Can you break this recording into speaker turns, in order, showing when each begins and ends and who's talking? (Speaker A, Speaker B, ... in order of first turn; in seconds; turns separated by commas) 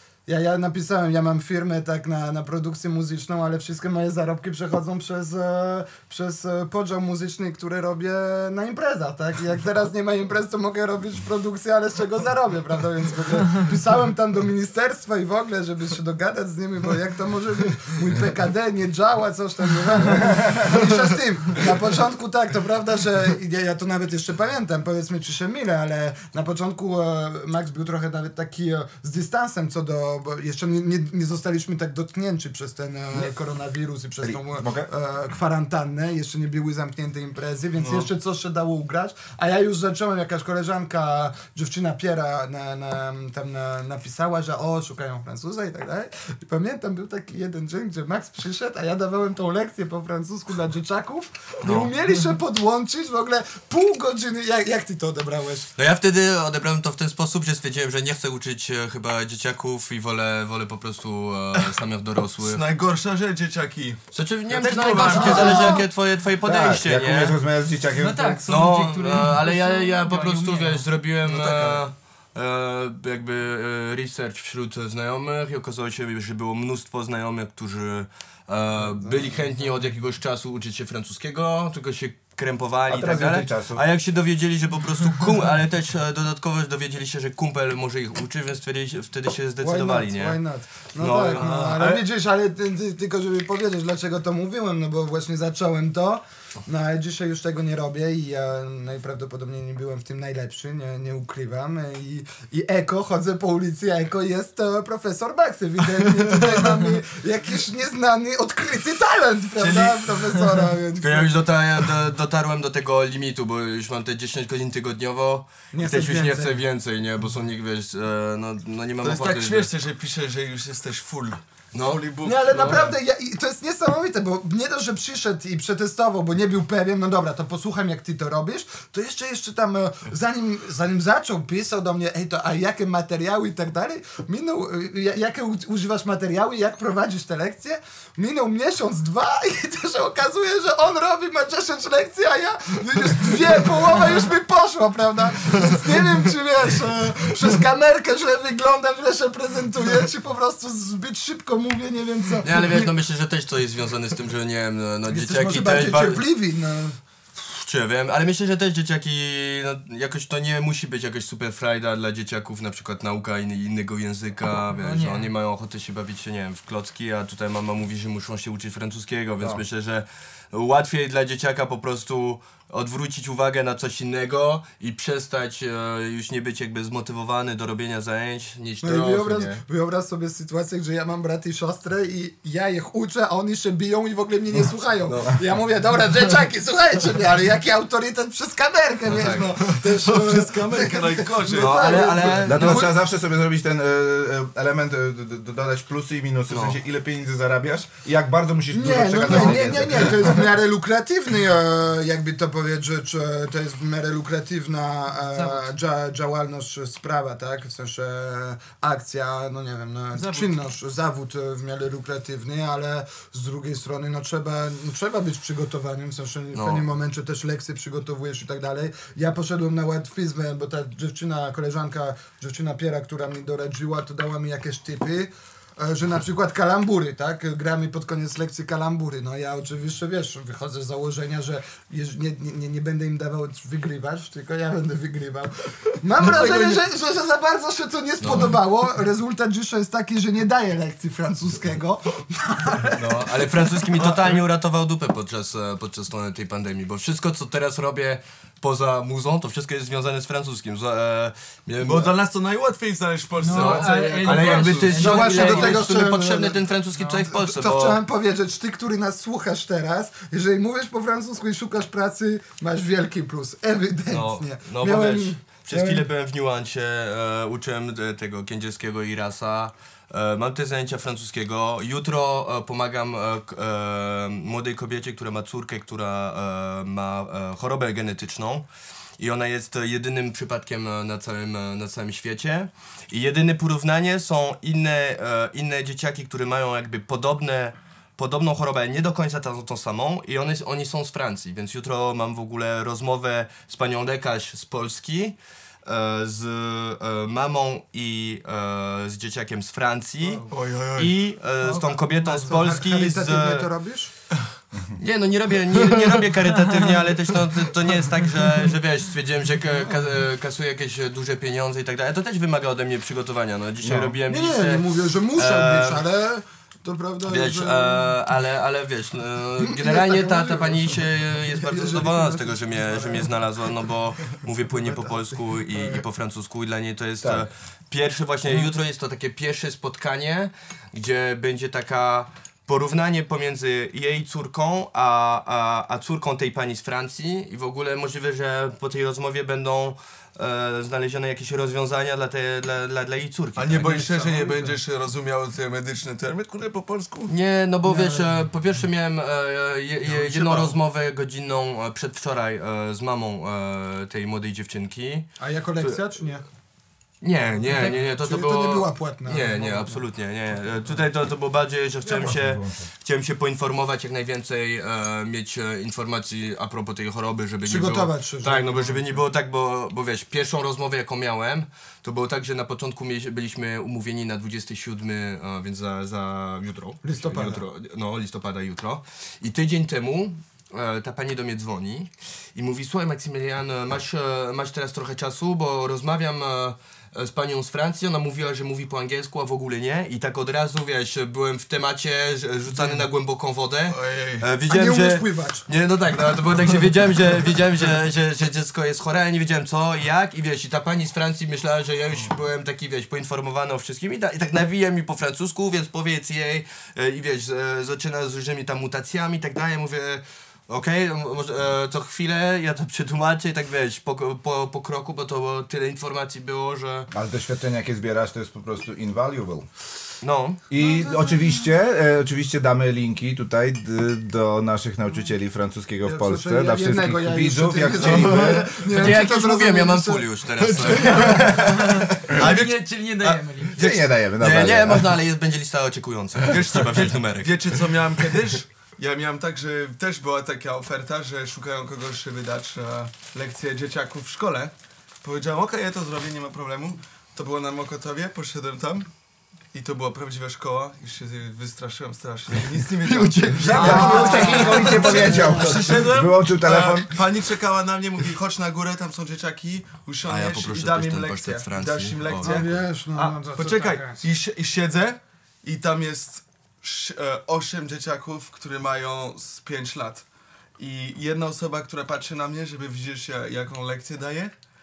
Speaker A: 0.3-55.7, Speaker B: 20.2-20.6, Speaker B: 34.2-34.9, Speaker C: 37.8-38.1, Speaker D: 51.6-51.9, Speaker D: 55.8-62.6, Speaker C: 62.4-65.8, Speaker D: 64.1-67.3, Speaker A: 65.1-65.8, Speaker E: 65.4-65.7, Speaker B: 66.4-68.5, Speaker E: 67.9-70.9, Speaker D: 68.5-90.4, Speaker C: 71.2-71.8, Speaker A: 78.8-79.6, Speaker B: 82.9-83.8, Speaker A: 89.6-111.3, Speaker D: 91.0-91.9, Speaker C: 91.3-92.0, Speaker D: 109.6-110.0, Speaker D: 111.0-119.7, Speaker A: 115.7-116.6, Speaker C: 119.0-123.0, Speaker D: 121.7-122.9, Speaker A: 122.2-152.9, Speaker D: 152.4-156.2, Speaker A: 155.1-157.0, Speaker D: 157.4-179.6, Speaker E: 164.7-165.3, Speaker A: 178.8-192.9, Speaker D: 189.1-189.6, Speaker C: 189.8-192.3, Speaker D: 191.5-192.9, Speaker B: 192.3-200.4, Speaker D: 196.5-196.8, Speaker A: 198.7-243.6, Speaker D: 199.3-199.6, Speaker E: 205.3-205.7, Speaker E: 210.1-210.6, Speaker D: 216.5-216.8, Speaker D: 236.3-236.8, Speaker D: 238.2-238.6, Speaker D: 242.9-252.1, Speaker C: 244.0-244.4, Speaker C: 251.8-255.1, Speaker E: 253.4-255.8, Speaker A: 253.4-253.7, Speaker D: 253.5-258.0, Speaker A: 254.9-256.6, Speaker A: 257.2-266.1, Speaker D: 264.1-278.6, Speaker D: 279.2-303.7, Speaker C: 300.5-301.1, Speaker E: 301.6-302.5, Speaker A: 302.3-304.1, Speaker D: 305.0-316.0, Speaker B: 313.8-314.1, Speaker A: 314.3-318.1, Speaker D: 317.3-344.3, Speaker A: 319.6-323.3, Speaker A: 324.9-325.1, Speaker B: 327.2-327.5, Speaker C: 343.6-347.3, Speaker A: 344.1-344.7, Speaker D: 347.3-355.3, Speaker A: 347.9-348.3, Speaker C: 350.0-350.8, Speaker A: 355.4-356.4, Speaker D: 357.2-417.1, Speaker A: 357.6-360.0, Speaker B: 362.0-362.9, Speaker A: 367.6-369.2, Speaker A: 377.0-377.6, Speaker C: 392.7-393.1, Speaker C: 393.9-394.5, Speaker A: 394.7-395.6, Speaker B: 417.1-419.7, Speaker D: 420.2-420.6, Speaker B: 420.7-428.8, Speaker A: 426.0-430.3, Speaker C: 428.0-428.6, Speaker D: 428.8-431.9, Speaker C: 430.6-433.4, Speaker E: 431.2-433.9, Speaker B: 433.7-435.1, Speaker D: 433.9-437.7, Speaker C: 436.4-449.1, Speaker C: 449.7-470.2, Speaker D: 452.9-455.4, Speaker B: 453.6-457.2, Speaker A: 453.7-455.9, Speaker E: 454.3-454.7, Speaker D: 460.2-462.7, Speaker A: 462.4-464.2, Speaker C: 470.8-474.5